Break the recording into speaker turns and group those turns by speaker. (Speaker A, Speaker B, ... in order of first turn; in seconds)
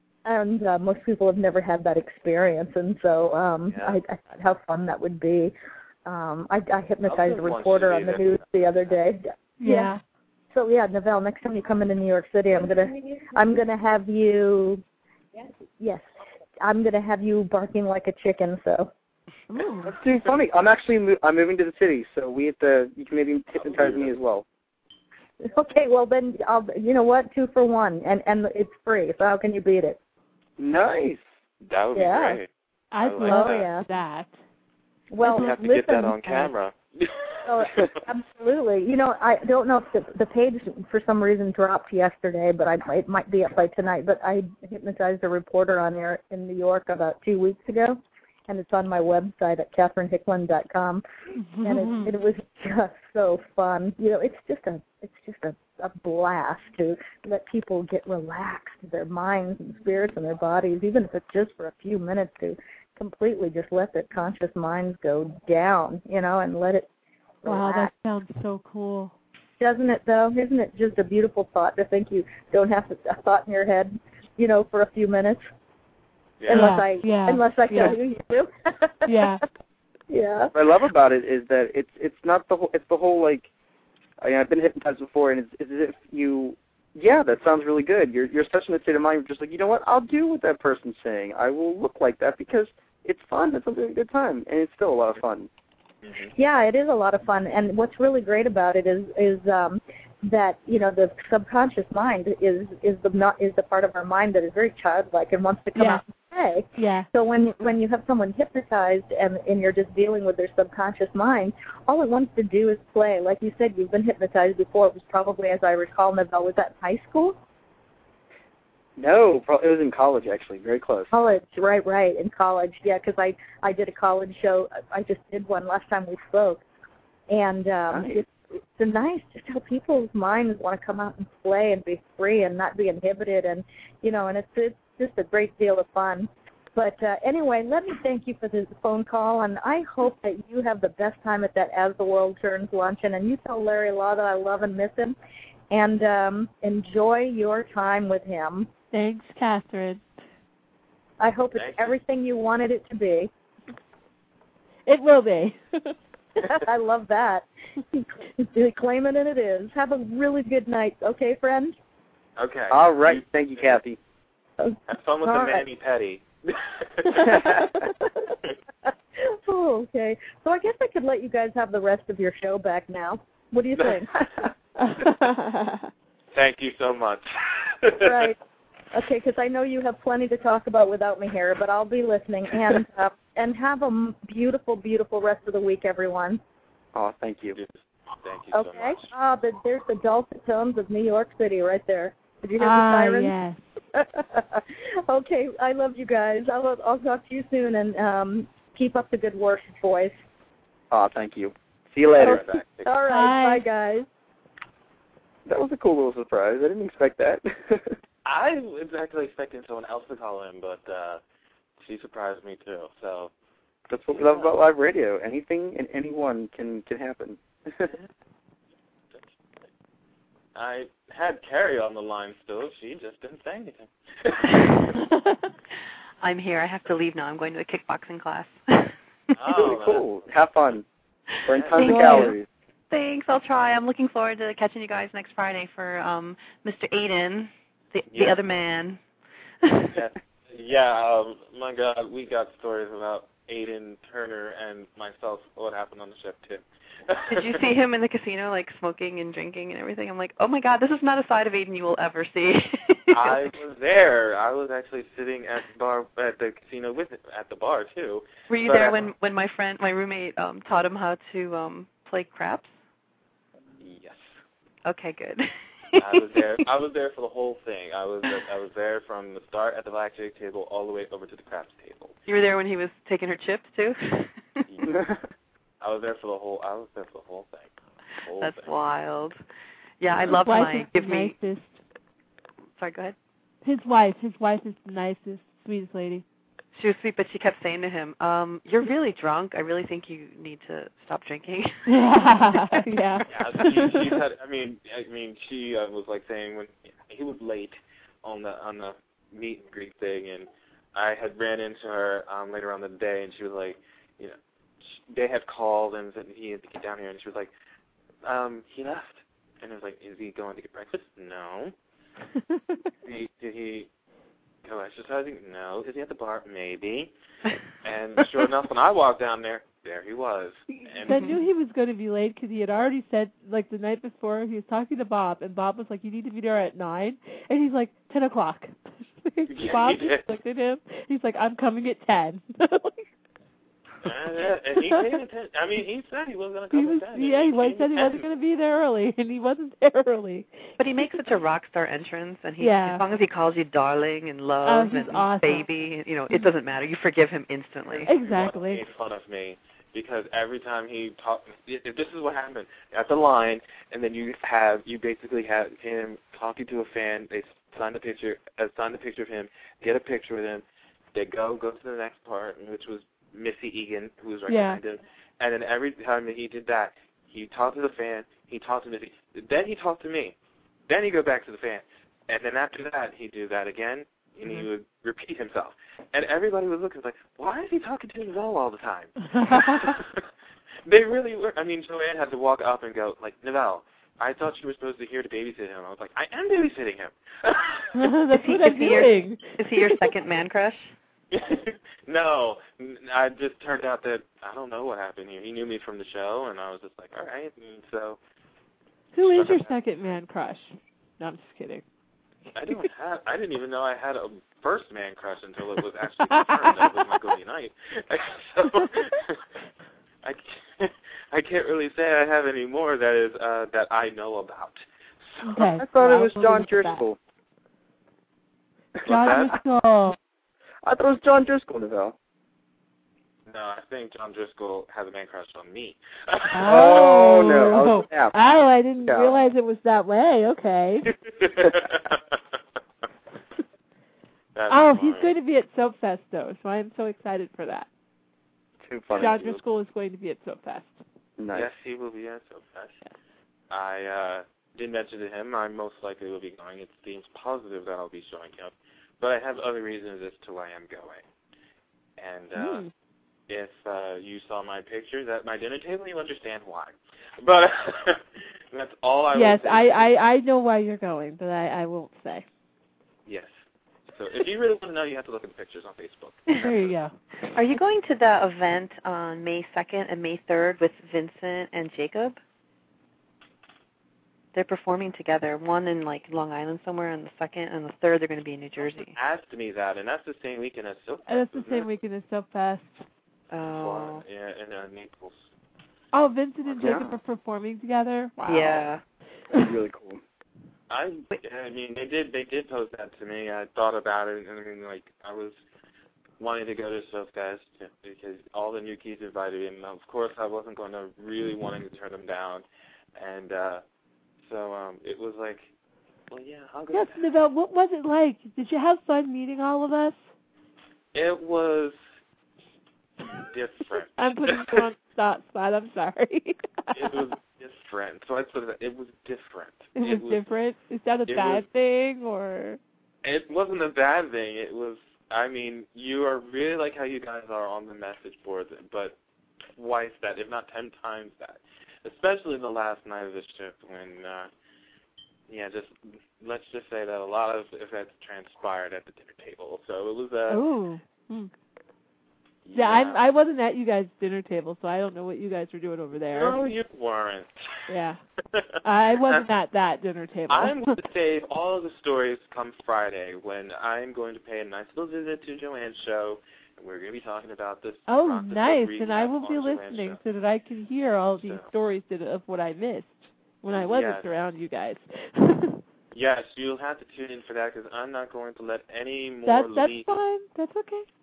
Speaker A: 0.2-5.5, 6.0-9.9, 10.5-14.8, 15.8-16.1, 16.6-18.9, 25.4-30.0, 31.9-32.4, 33.2-33.9, 35.1-36.5, 37.4-51.0, 51.6-66.8, 67.4-67.9, 69.6-75.4, 76.5-79.3, 80.1-80.5, 96.3-117.4, 121.1-126.6, 127.3-128.2, 128.8-145.2, 145.7-148.7, 151.2-153.3, 156.4-161.8, 164.6-165.6, 169.2-174.1, 178.0-178.4, 178.9-186.4, 188.5-193.3, 193.9-200.2, 202.2-204.1
Speaker B: 7.1-8.9, 23.6-24.1, 31.6-32.5, 33.0-33.6, 35.3-37.3, 96.0-96.3, 151.5-152.0, 162.4-163.8, 164.9-167.6, 176.3-178.3, 187.5-189.1, 202.2-202.8, 208.2-211.2, 211.8-213.3, 214.1-214.5, 220.5-224.9, 229.3-230.2, 231.6-231.8, 238.1-238.4, 239.9-247.6, 253.1-259.1, 263.8-264.3, 266.0-272.1, 274.7-275.0, 275.8-278.7, 293.3-307.5, 308.2-311.7, 313.0-313.9, 314.6-317.1, 317.8-321.3, 329.5-330.2, 334.0-338.3, 348.0-370.4, 370.9-380.2, 380.8-388.1, 391.3-398.2, 399.2-399.7, 402.5-409.4, 410.2-415.6, 419.0-419.6, 423.5-427.3, 431.1-432.4, 434.5-435.3, 439.1-439.6, 441.5-442.9, 443.7-451.2, 452.2-452.9, 453.5-460.1, 463.2-463.5, 464.1-466.9, 478.8-481.9, 483.5-485.5, 486.6-486.9, 490.9-495.6, 496.4-502.6, 503.1-503.8, 504.4-505.7, 506.3-507.2, 511.1-511.9, 513.3-514.8, 516.9-520.4, 521.3-521.6, 523.2-529.2, 529.8-534.5, 535.5-540.6, 542.6-543.2, 546.3-547.5, 550.5-560.2, 561.4-561.7, 563.7-564.3, 566.1-570.1
Speaker C: 9.6-10.0, 19.5-19.9, 32.9-34.3, 51.4-52.2, 67.4-69.1, 76.5-78.0, 79.1-79.4, 105.7-106.0, 106.8-107.1, 148.9-150.0, 154.8-155.9, 174.8-175.9, 192.6-193.6, 203.1-203.7, 225.0-225.3, 231.8-232.3, 280.2-281.8, 283.6-286.2, 291.9-294.1, 320.7-333.0, 334.8-335.2, 336.7-341.3, 342.6-343.0, 344.6-345.7, 348.1-348.8, 364.5-364.8, 379.3-379.9, 387.9-390.1, 399.1-401.8, 402.5-402.9, 406.3-407.2, 415.4-417.1, 419.0-420.2, 426.5-431.1, 434.7-437.9, 439.1-441.0, 452.6-452.9, 459.3-462.4, 466.5-467.1, 481.3-483.0, 486.1-488.9, 506.9-510.2, 514.1-517.2, 520.0-522.8, 540.5-541.5, 542.7-546.6, 547.9-548.2, 548.8-551.0, 558.1-565.8, 569.4-571.0
Speaker D: 19.9-24.4, 30.6-31.2, 80.5-83.5, 84.2-95.5, 119.0-121.1, 127.9-128.2, 162.7-164.0, 186.9-187.6, 200.9-202.4, 205.4-207.9, 213.9-217.9, 229.6-230.8, 231.5-232.4, 274.9-275.1, 415.6-417.1, 420.8-422.1, 426.7-428.3, 429.1-429.4, 438.8-439.5, 441.4-441.7, 486.8-487.1, 489.6-490.2
Speaker E: 226.2-228.9, 231.7-232.3, 232.9-239.0, 239.6-239.9, 247.3-253.4, 258.5-262.7, 264.8-266.2, 272.3-274.6, 278.4-279.4, 280.0-281.3, 282.8-283.1, 286.7-292.8, 321.1-321.4, 340.8-348.1, 388.3-390.9, 467.5-472.4, 474.5-479.1, 483.5-484.2, 488.4-489.0